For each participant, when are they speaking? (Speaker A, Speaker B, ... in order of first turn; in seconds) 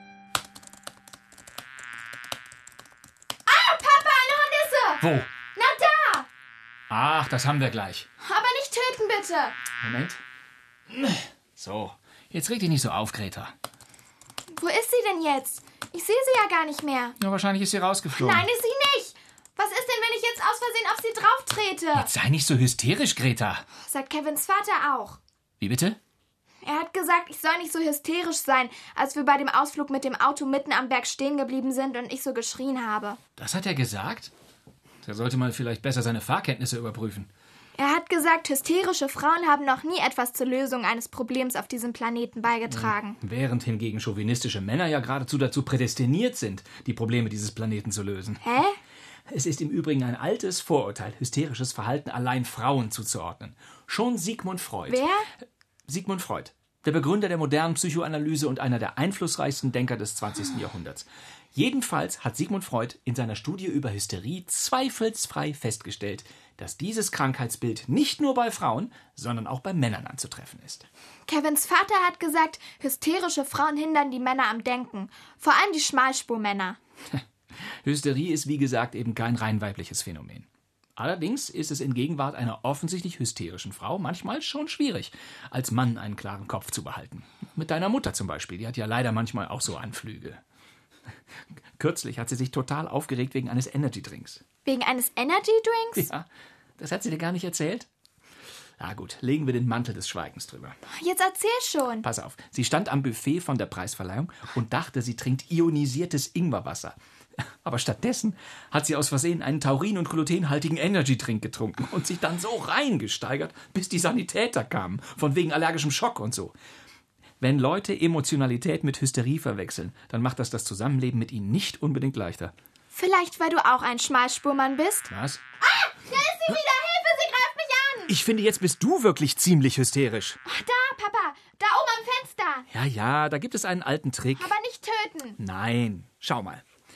Speaker A: 3.5-6.3, 8.2-9.6, 14.5-17.1, 18.1-22.1, 23.8-25.2, 26.6-33.2, 37.8-43.2, 48.4-48.8, 54.9-55.3, 71.3-76.8, 94.6-96.1, 100.9-102.1, 122.9-128.1, 130.4-132.7, 134.3-135.4
Speaker B: 5.0-5.3, 6.9-8.1, 9.8-10.2, 10.9-13.5, 17.2-18.5, 21.9-23.6, 25.6-26.0, 33.4-34.3, 35.0-37.3, 42.7-48.4, 49.3-55.1, 55.9-70.8, 77.8-90.4, 91.8-94.4, 96.0-96.2, 96.8-97.9, 98.8-100.8, 102.0-107.0, 107.6-116.5, 117.4-122.5, 125.1-125.4, 128.1-130.4, 132.7-134.6, 135.4-136.6